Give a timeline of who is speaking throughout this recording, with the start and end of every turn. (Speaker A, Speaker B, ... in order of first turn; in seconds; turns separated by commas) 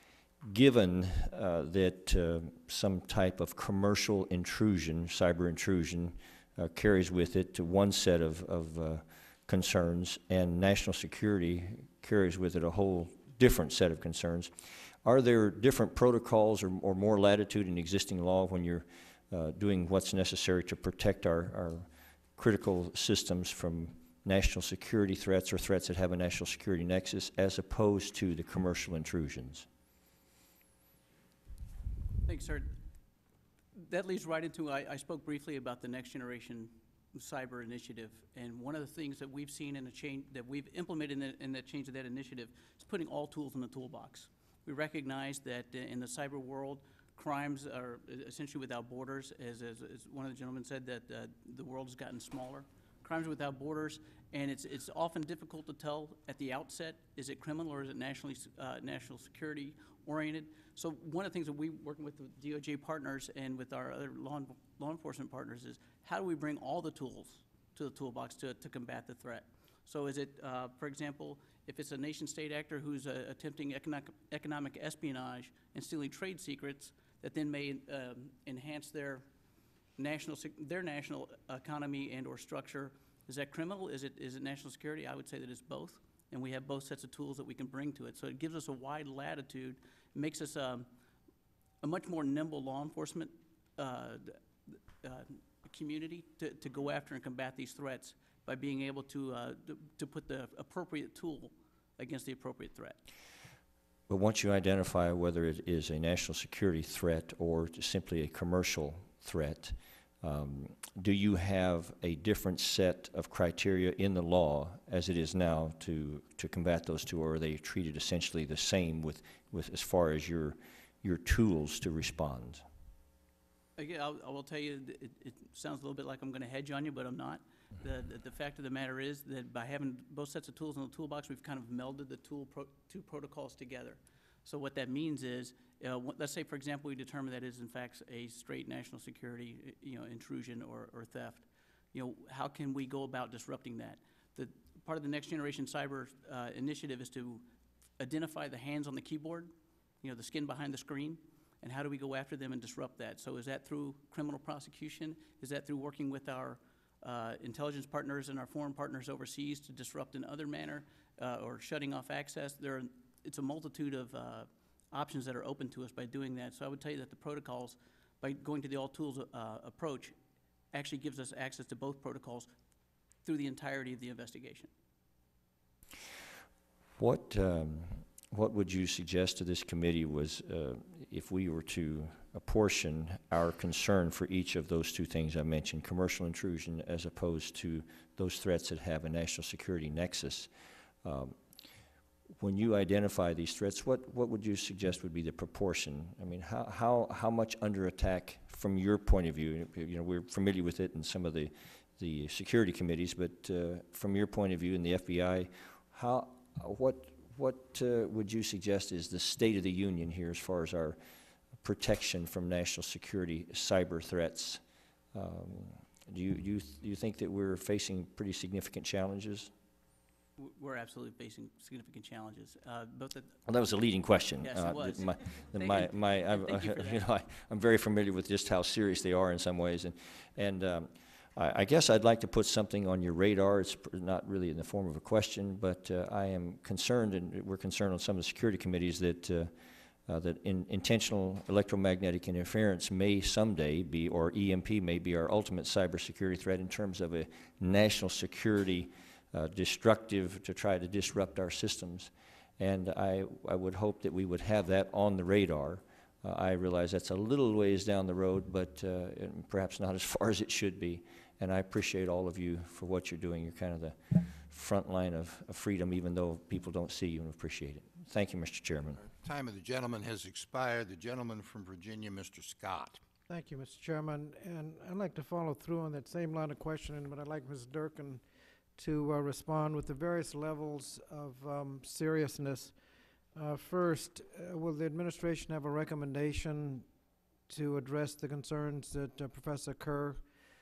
Speaker A: 0.5-14.5, Speaker A: 15.0-29.6, Speaker B: 32.2-32.7, Speaker B: 33.8-79.2, Speaker B: 80.0-90.9, Speaker B: 91.8-103.0, Speaker A: 104.1-122.6, Speaker B: 123.8-147.4, Speaker B: 148.0-170.2, Speaker B: 170.7-172.5, Speaker B: 173.2-174.7, Speaker A: 177.0-190.5, Speaker A: 191.0-191.3, Speaker A: 192.4-211.0, Speaker A: 211.6-214.6, Speaker A: 215.1-219.5, Speaker B: 220.4-223.3, Speaker A: 223.4-239.5, Speaker B: 224.4-227.0, Speaker A: 240.1-269.1, Speaker C: 269.0-273.0, Speaker D: 273.3-278.2, Speaker D: 278.8-282.7, Speaker D: 283.3-286.9, Speaker D: 287.5-290.2